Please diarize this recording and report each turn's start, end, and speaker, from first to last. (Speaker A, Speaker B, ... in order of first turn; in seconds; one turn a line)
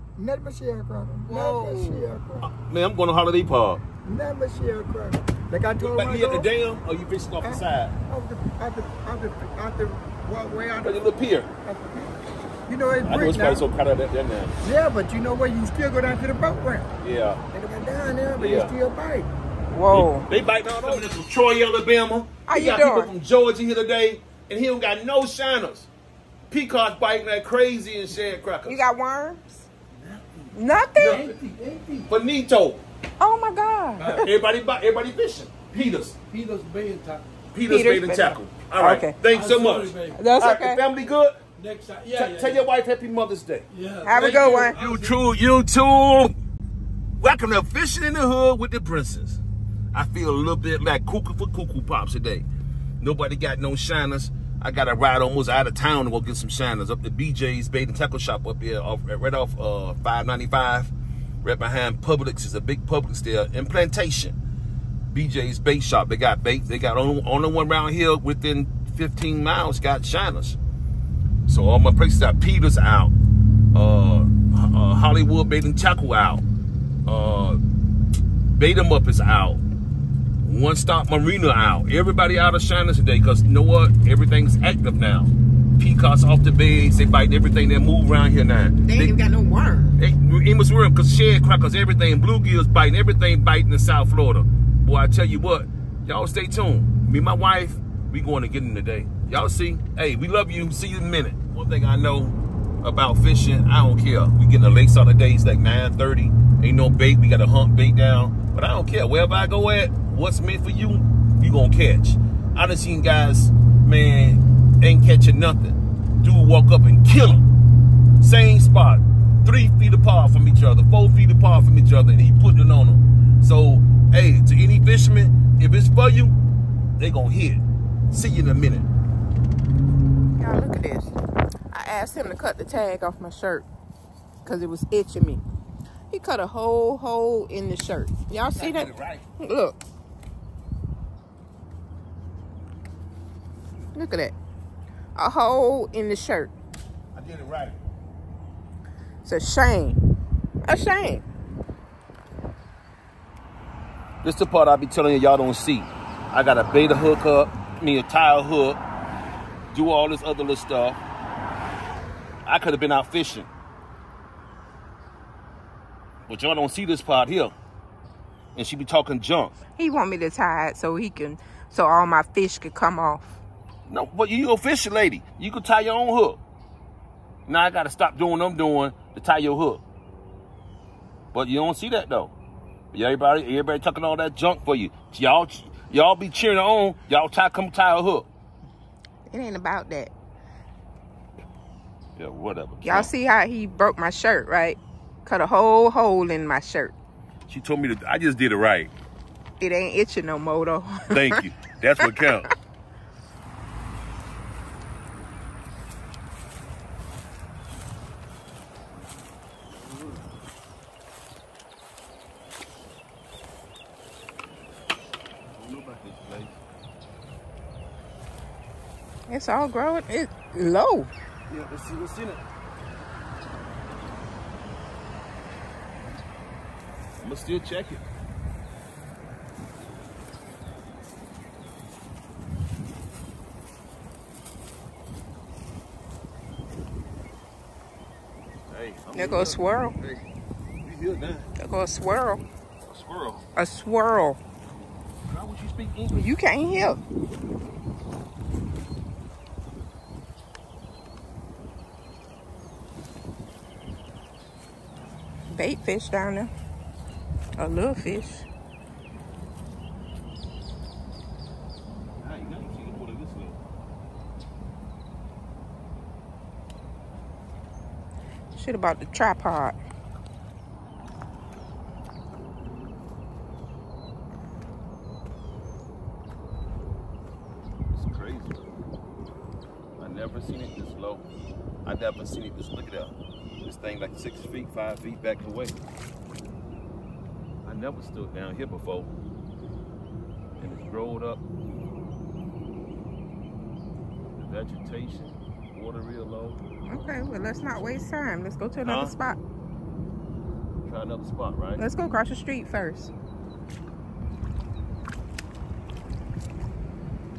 Speaker A: 0.2-2.5
Speaker B: 1.3-2.1
Speaker C: 2.4-3.8
Speaker A: 4.0-6.5
Speaker C: 5.8-7.9
Speaker A: 7.4-11.1
Speaker C: 10.8-11.5
Speaker A: 11.7-12.1
Speaker A: 12.7-13.6
Speaker C: 13.0-14.5
Speaker A: 14.6-16.9
Speaker C: 17.0-17.4
Speaker A: 17.5-19.3
Speaker C: 18.4-18.7
Speaker B: 19.7-20.3
Speaker C: 19.9-25.9
Speaker B: 22.5-23.1
Speaker C: 26.5-28.8
Speaker B: 28.6-29.7
Speaker D: 29.9-30.5
Speaker B: 30.5-31.3
Speaker C: 30.9-31.4
Speaker D: 31.1-31.9
Speaker C: 31.9-32.8
Speaker B: 33.2-34.3
Speaker C: 34.2-36.2
Speaker D: 36.3-37.3
Speaker C: 37.5-41.4
Speaker B: 37.6-39.2
Speaker D: 39.2-40.2
Speaker B: 40.1-40.8
Speaker D: 41.6-42.6
Speaker C: 42.0-46.4
Speaker D: 43.7-45.1
Speaker B: 44.0-44.8
Speaker C: 47.2-49.4
Speaker C: 49.9-52.5
Speaker C: 53.0-60.9
Speaker C: 61.4-64.3
Speaker C: 65.1-70.6
Speaker C: 71.5-73.1
Speaker C: 73.7-76.4
Speaker C: 77.0-77.6
Speaker C: 78.5-79.6
Speaker C: 80.4-89.2
Speaker B: 88.8-90.0
Speaker C: 90.0-117.5
Speaker C: 118.2-126.3
Speaker C: 127.0-128.9
Speaker B: 130.3-131.1
Speaker B: 131.7-133.7
Speaker B: 134.4-135.4
Speaker B: 136.1-139.8
Speaker C: 138.4-139.2
Speaker B: 143.9-144.3
Speaker B: 145.1-146.5
Speaker C: 147.1-147.8
Speaker B: 149.2-150.0
Speaker B: 150.7-151.2
Speaker C: 154.2-158.8
Speaker C: 159.7-161.0
Speaker C: 162.4-163.5
Speaker C: 166.3-167.5
Speaker C: 168.5-169.6
Speaker B: 169.8-173.4
Speaker C: 173.9-176.4
Speaker C: 177.5-179.8
Speaker C: 181.3-182.3
Speaker C: 182.9-188.3
Speaker B: 189.3-190.1
Speaker C: 192.2-193.1
Speaker B: 192.8-196.9
Speaker C: 197.5-198.9
Speaker B: 199.6-201.4
Speaker C: 201.1-202.5
Speaker C: 209.8-210.2
Speaker C: 215.5-216.6
Speaker B: 219.3-221.1
Speaker C: 221.5-222.4
Speaker C: 227.2-228.0
Speaker C: 238.7-240.2
Speaker B: 239.1-239.9
Speaker C: 240.8-241.5
Speaker B: 241.6-242.4
Speaker C: 242.8-243.4
Speaker B: 243.6-244.4
Speaker C: 245.3-246.3
Speaker B: 246.1-247.0
Speaker B: 255.5-256.5
Speaker B: 257.6-258.5
Speaker C: 262.2-263.6
Speaker B: 268.5-269.8
Speaker C: 277.9-278.6
Speaker C: 280.0-281.3
Speaker C: 281.8-285.8
Speaker C: 287.6-289.1
Speaker C: 290.6-291.4
Speaker C: 294.4-296.6
Speaker B: 296.9-299.4
Speaker C: 298.8-299.1
Speaker C: 300.8-301.8
Speaker B: 301.8-303.1